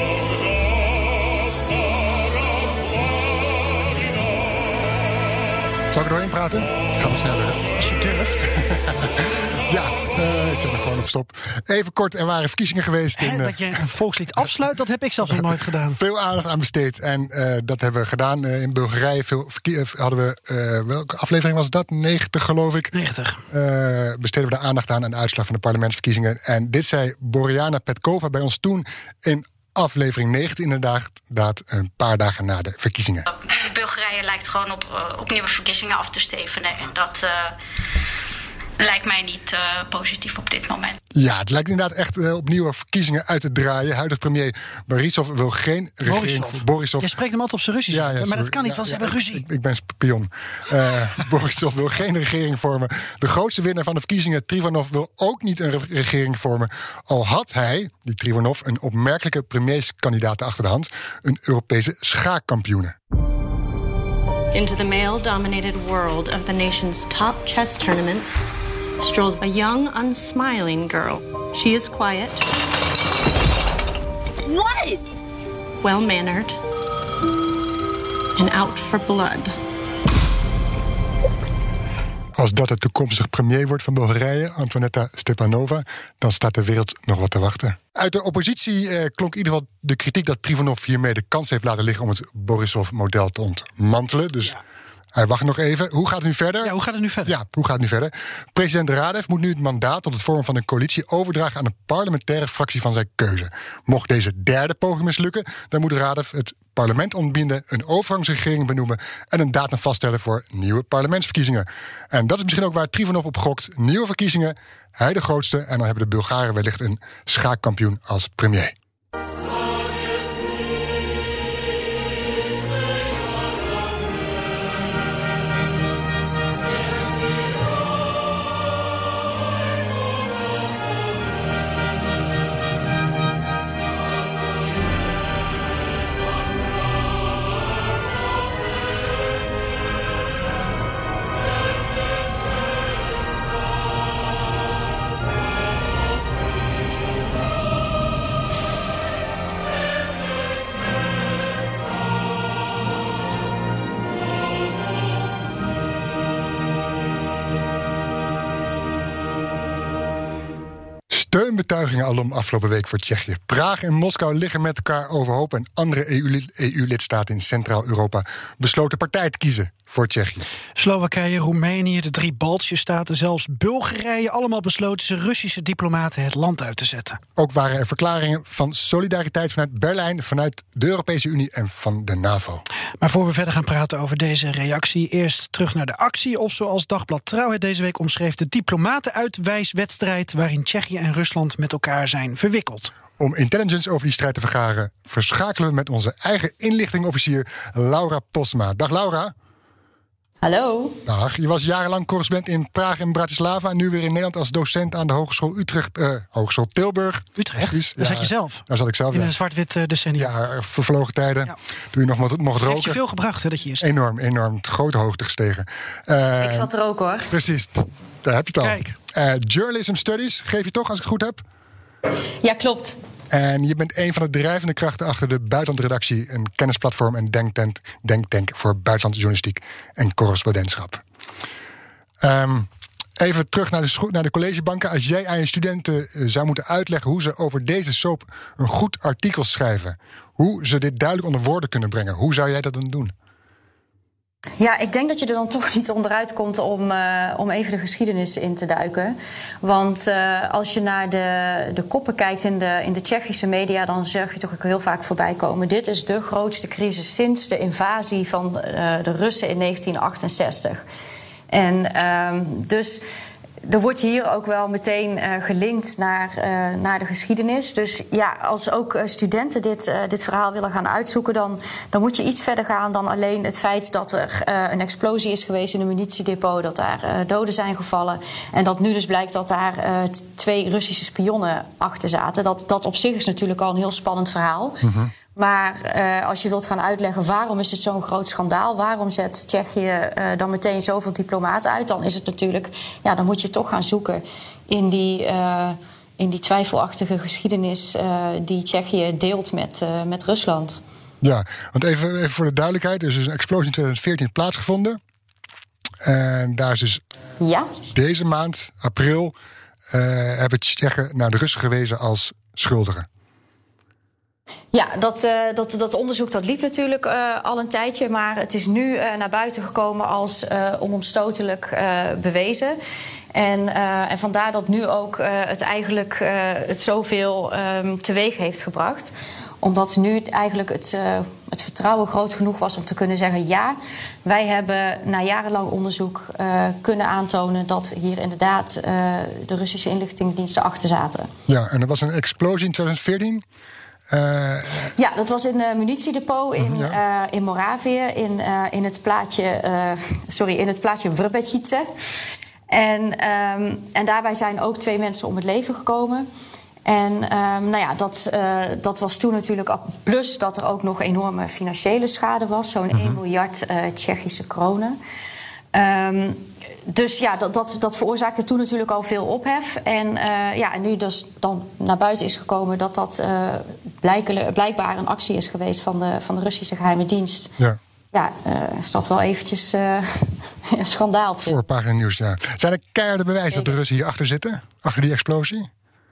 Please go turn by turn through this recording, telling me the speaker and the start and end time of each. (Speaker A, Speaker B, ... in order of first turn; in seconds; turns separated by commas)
Speaker A: 5.9-7.6, Speaker B: 7.7-8.5, Speaker A: 8.6-13.8, Speaker B: 13.2-16.0, Speaker A: 15.3-22.9, Speaker B: 22.9-23.4, Speaker A: 23.5-33.2, Speaker C: 33.2-37.5, Speaker C: 38.8-41.0, Speaker A: 41.1-47.2, Speaker B: 46.0-49.4, Speaker A: 47.9-62.9, Speaker D: 64.5-68.3, Speaker D: 69.0-72.5, Speaker D: 74.5-75.0, Speaker D: 75.8-76.6, Speaker D: 78.3-79.5, Speaker A: 82.3-94.6, Speaker A: 95.1-118.7, Speaker B: 96.6-97.3, Speaker A: 161.1-170.4, Speaker B: 170.8-177.2, Speaker A: 177.4-182.6, Speaker B: 183.0-192.9, Speaker A: 193.2-199.3, Speaker E: 200.4-201.0, Speaker A: 201.1-209.3, Speaker B: 207.4-210.3, Speaker A: 210.2-213.0, Speaker B: 212.6-213.9, Speaker A: 213.8-216.7, Speaker E: 216.4-217.3, Speaker A: 217.3-221.4, Speaker B: 218.6-218.9, Speaker E: 222.4-223.0, Speaker A: 223.3-231.0, Speaker A: 232.2-243.1, Speaker E: 244.6-260.8, Speaker E: 261.5-263.0, Speaker E: 263.6-284.8, Speaker A: 284.8-285.1, Speaker E: 285.4-300.8, Speaker A: 301.2-305.0, Speaker A: 306.0-307.0, Speaker E: 307.4-307.7, Speaker A: 307.9-309.3, Speaker A: 309.9-313.1, Speaker E: 314.7-322.8, Speaker E: 323.3-341.3, Speaker A: 341.5-343.4, Speaker A: 344.1-344.9, Speaker E: 344.9-351.9, Speaker A: 346.6-347.0, Speaker E: 352.7-356.3, Speaker E: 356.8-365.0, Speaker A: 362.9-363.2, Speaker E: 365.7-377.5, Speaker E: 378.1-381.6, Speaker A: 381.4-385.7